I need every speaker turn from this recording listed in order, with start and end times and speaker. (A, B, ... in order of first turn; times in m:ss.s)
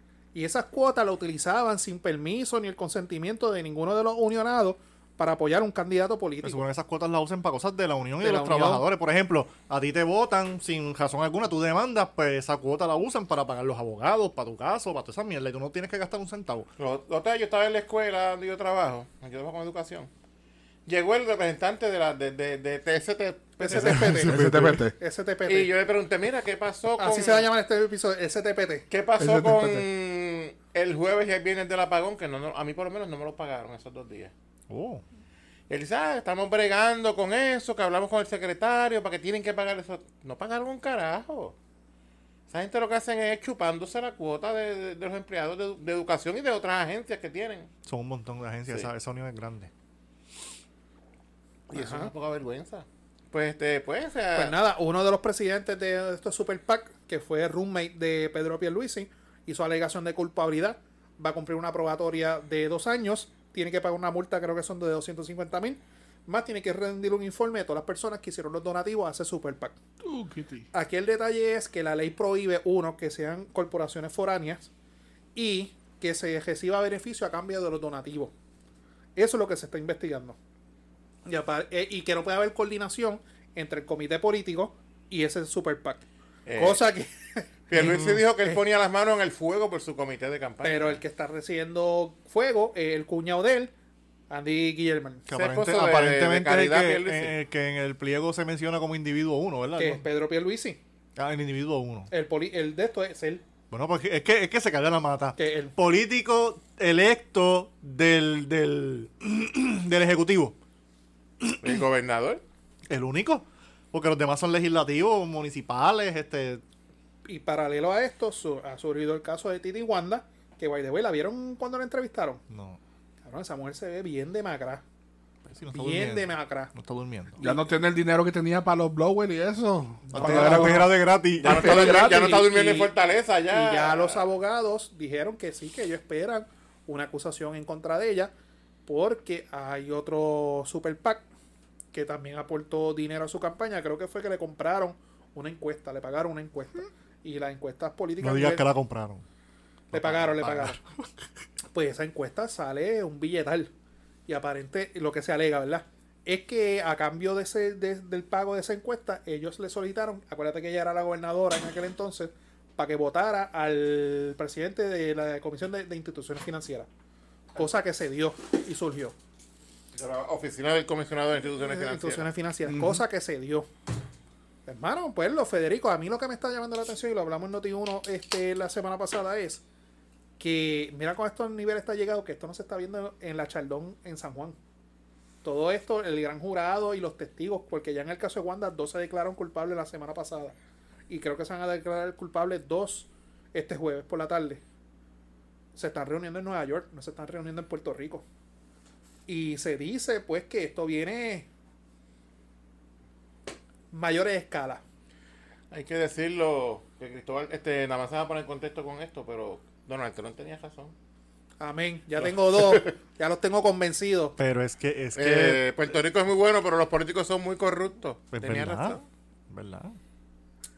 0:00.3-0:06.6 A
0:06.4-0:16.7 B
0:08.2-0:08.8 A
0:16.8-0:20.1 C
0:20.8-0:24.3 C
0:23.6-0:25.7 A
0:23.7-0:24.8 B
0:24.1-0:25.0 D
0:25.4-0:27.5 C
0:27.0-0:28.8 A
0:28.9-0:34.3 C
0:29.2-0:29.8 D
0:34.7-0:35.0 B
0:35.7-0:41.6 C
0:42.5-0:47.7 C
0:47.8-0:49.7 B
0:51.7-0:52.1 A
0:51.7-0:54.6 C
0:54.3-1:09.8 A
1:10.0-1:10.6 D
1:10.7-1:14.7 A
1:15.3-1:18.3 A
1:19.2-1:20.4 A
1:21.2-1:27.9 A
1:26.4-1:26.8 C
1:27.7-1:31.0 C
1:27.7-1:28.2 B
1:30.6-1:33.7 A
1:34.3-1:35.2 A
1:35.3-1:40.0 B
1:35.3-1:37.3 C
1:39.8-1:40.8 A
1:41.2-1:42.1 B
1:42.1-1:43.4 A
1:43.7-1:50.6 B
1:45.4-1:45.7 A
1:51.6-1:52.4 C
1:52.9-1:56.6 B
1:57.2-2:02.4 A
2:02.5-2:02.8 B
2:03.2-2:04.8 A
2:05.4-2:07.4 B
2:05.7-2:06.7 A
2:07.4-2:07.6 A
2:07.4-2:10.9 D
2:10.0-2:10.8 A
2:10.1-2:12.0 B
2:11.4-2:14.2 C
2:11.4-2:12.4 D
2:11.6-2:12.9 A
2:13.5-2:18.3 A
2:18.8-2:21.2 A
2:21.9-2:28.6 A
2:28.2-2:29.2 B
2:29.9-2:31.1 B
2:29.9-2:30.8 A
2:31.7-2:33.7 A
2:34.3-2:46.9 A
2:47.5-2:49.1 A
2:49.9-2:52.3 C
2:51.6-2:53.7 A
2:52.6-2:53.0 D
2:54.6-2:59.6 A
3:00.4-3:04.6 A
3:05.4-3:10.5 A
3:11.1-3:14.6 A
3:15.7-3:18.2 A
3:19.3-3:21.5 A
3:23.9-3:24.8 A
3:25.7-3:30.9 C
3:31.6-3:34.4 A
3:32.2-3:32.9 C
3:34.4-3:35.6 B
3:35.2-3:39.1 C
3:38.3-3:40.0 B